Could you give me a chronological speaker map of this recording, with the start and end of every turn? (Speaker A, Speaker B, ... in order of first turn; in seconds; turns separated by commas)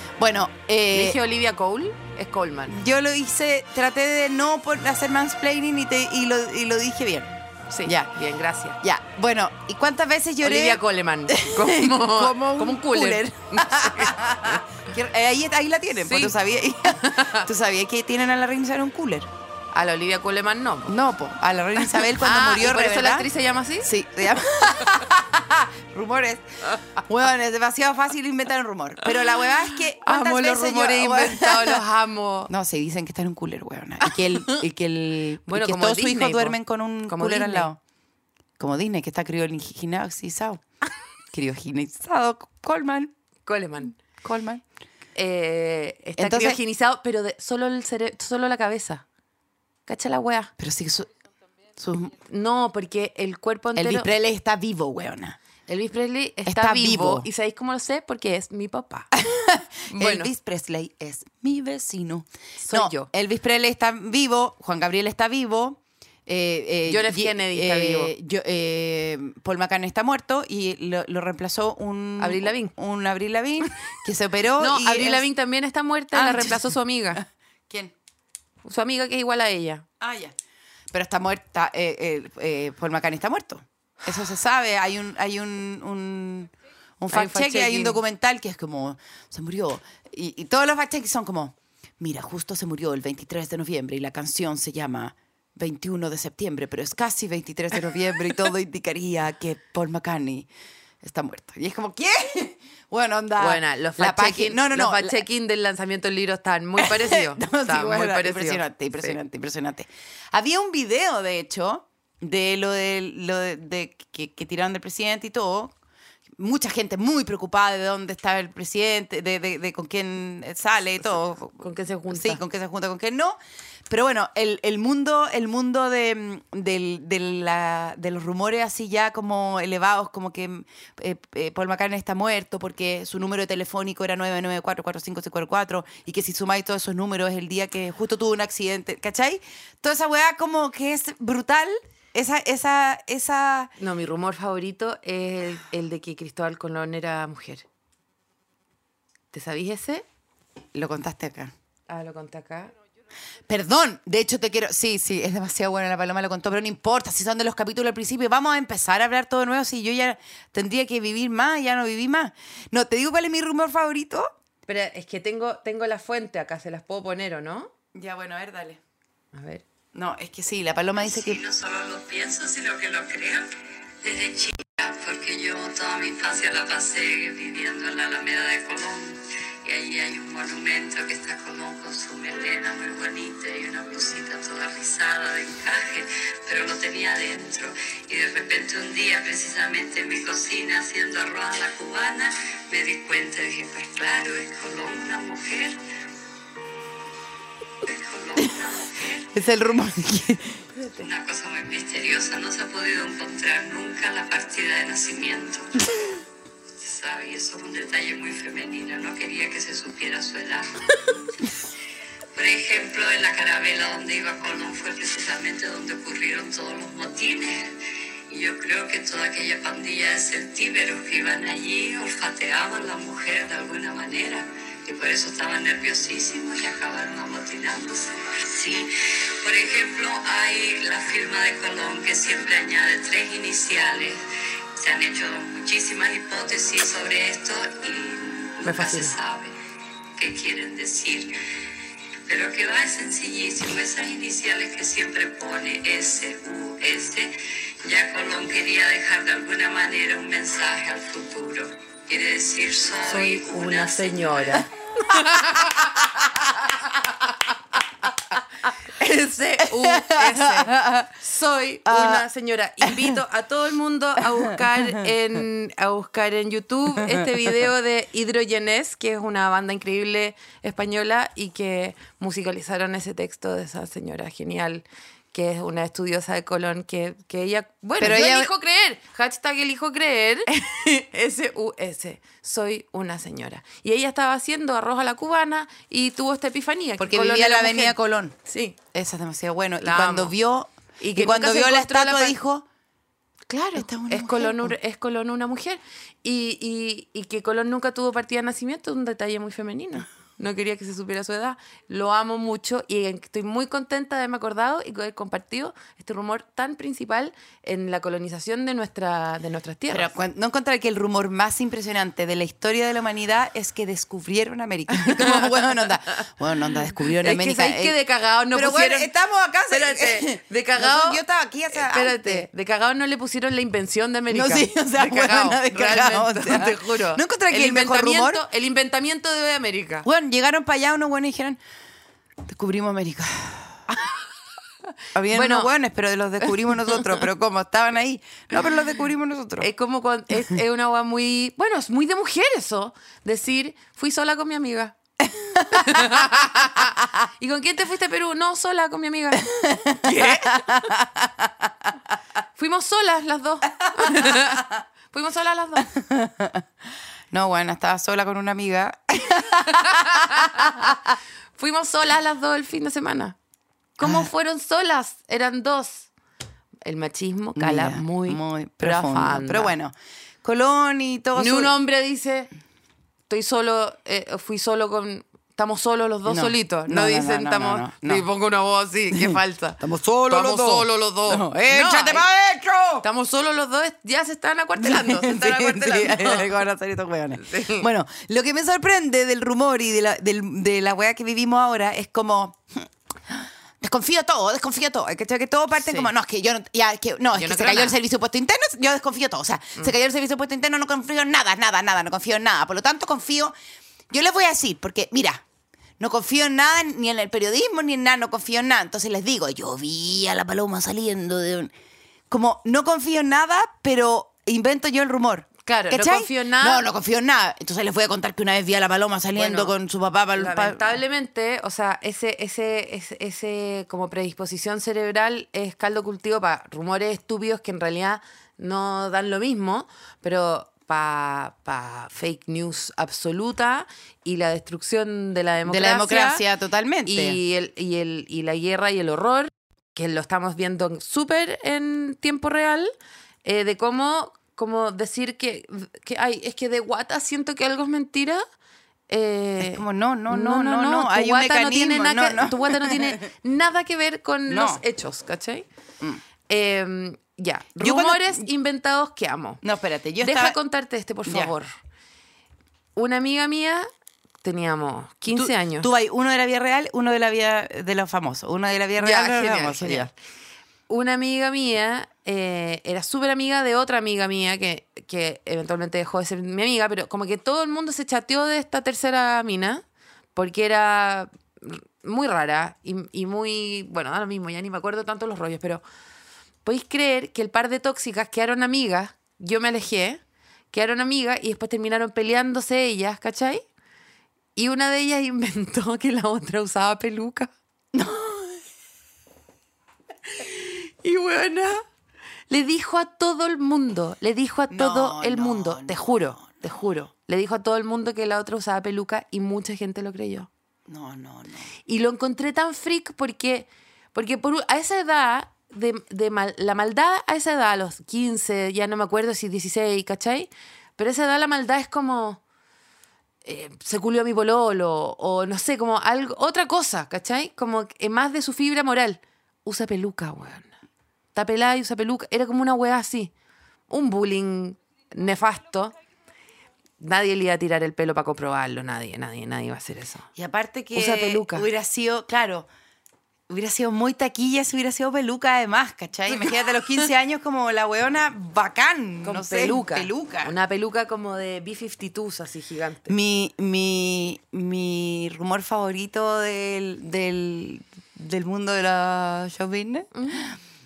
Speaker A: 0.2-1.2, Speaker B: 0.9-2.8, Speaker A: 2.7-7.3, Speaker B: 7.7-8.8, Speaker A: 7.8-8.1, Speaker A: 8.8-19.3, Speaker B: 10.4-14.2, Speaker B: 16.0-16.4, Speaker B: 16.9-17.5, Speaker B: 19.7-21.0, Speaker A: 20.9-23.3, Speaker B: 21.8-23.9, Speaker A: 23.8-31.8, Speaker B: 30.0-32.5, Speaker A: 32.5-37.8, Speaker B: 34.0-34.6, Speaker B: 35.5-37.7, Speaker A: 38.6-40.6, Speaker A: 41.3-43.1, Speaker B: 43.5-44.0, Speaker A: 44.1-44.6, Speaker B: 45.1-49.0, Speaker A: 46.2-46.6, Speaker B: 49.9-50.5, Speaker A: 50.6-51.1, Speaker A: 51.8-52.1, Speaker B: 52.2-54.1, Speaker A: 53.8-55.4, Speaker B: 55.7-59.1, Speaker A: 56.5-57.3, Speaker A: 59.1-75.3, Speaker B: 59.9-60.3, Speaker B: 62.6-63.1, Speaker B: 66.9-68.1, Speaker B: 72.2-72.7, Speaker B: 74.6-77.2, Speaker A: 76.1-77.9, Speaker B: 78.6-79.9, Speaker A: 80.0-80.3, Speaker A: 80.9-100.5, Speaker B: 87.1-88.0, Speaker A: 101.0-105.2, Speaker B: 103.4-109.2, Speaker A: 106.8-115.7, Speaker A: 116.4-123.4, Speaker B: 121.6-122.4, Speaker A: 123.9-143.7, Speaker B: 143.8-147.7, Speaker B: 149.3-150.1, Speaker A: 150.7-151.5, Speaker B: 151.9-152.7, Speaker A: 153.5-164.3, Speaker B: 164.7-167.7, Speaker A: 167.9-168.8, Speaker B: 169.3-169.6, Speaker A: 169.9-171.4, Speaker C: 171.0-173.5, Speaker C: 174.0-195.8, Speaker C: 197.8-199.3, Speaker A: 199.3-200.7, Speaker C: 201.0-205.8, Speaker C: 206.8-211.1, Speaker C: 212.3-217.8, Speaker C: 218.3-234.2, Speaker C: 234.8-239.6, Speaker B: 238.6-239.2, Speaker C: 240.2-241.4, Speaker C: 242.3-254.7, Speaker B: 253.1-255.8, Speaker B: 258.9-288.8, Speaker A: 259.6-261.1, Speaker A: 261.9-262.3, Speaker A: 262.8-263.2, Speaker A: 264.2-265.1, Speaker A: 267.0-267.3, Speaker A: 278.0-278.5, Speaker A: 287.0-288.4, Speaker A: 288.9-292.6, Speaker B: 289.8-290.4, Speaker B: 291.0-292.4, Speaker B: 293.5-310.1, Speaker A: 293.8-294.8, Speaker A: 309.9-318.0, Speaker B: 317.1-319.1, Speaker A: 318.5-322.5, Speaker B: 319.7-330.1, Speaker A: 324.3-328.4, Speaker A: 330.0-331.6, Speaker A: 332.4-333.8, Speaker A: 335.1-339.7, Speaker B: 335.3-335.7, Speaker B: 339.6-344.9, Speaker A: 345.2-346.2, Speaker B: 345.7-349.5, Speaker A: 349.4-351.7, Speaker B: 350.0-350.9, Speaker B: 352.6-355.9, Speaker A: 354.0-354.6, Speaker A: 355.8-356.6, Speaker A: 357.3-361.0, Speaker B: 359.8-360.8, Speaker B: 361.6-363.4, Speaker B: 364.0-366.1, Speaker A: 364.0-364.3, Speaker B: 366.9-369.7, Speaker A: 367.6-371.8, Speaker B: 371.4-372.5, Speaker B: 373.3-382.2, Speaker A: 376.3-378.3, Speaker A: 379.1-383.1, Speaker B: 383.0-386.6, Speaker A: 384.8-403.5, Speaker B: 387.4-387.9, Speaker B: 395.8-396.1, Speaker B: 397.4-398.0, Speaker A: 404.1-405.4, Speaker A: 406.0-411.7, Speaker A: 412.3-421.0, Speaker B: 415.6-416.8, Speaker B: 419.4-419.7, Speaker B: 420.4-436.4, Speaker A: 435.6-437.4, Speaker B: 437.1-442.9, Speaker B: 443.4-448.4, Speaker B: 449.1-455.6, Speaker A: 449.6-453.2, Speaker A: 454.5-454.8, Speaker B: 456.5-459.6, Speaker A: 457.8-458.5, Speaker A: 459.6-460.6, Speaker B: 460.2-461.7, Speaker A: 461.3-461.5, Speaker B: 462.9-463.9, Speaker B: 464.4-465.9, Speaker A: 465.3-470.1, Speaker B: 469.0-470.1, Speaker B: 470.9-479.8, Speaker B: 480.4-485.8, Speaker B: 486.6-490.2, Speaker B: 490.7-493.6, Speaker B: 494.6-497.5, Speaker A: 497.9-498.6, Speaker B: 500.4-501.8, Speaker B: 502.5-510.5, Speaker A: 504.7-506.5, Speaker A: 510.9-511.7, Speaker B: 511.9-522.4, Speaker B: 523.5-530.7, Speaker B: 531.4-533.3, Speaker B: 533.9-535.9, Speaker B: 537.0-540.3, Speaker A: 540.4-542.7, Speaker B: 540.9-541.7, Speaker A: 543.5-550.5, Speaker B: 549.2-553.1, Speaker A: 553.1-560.5, Speaker B: 560.1-560.5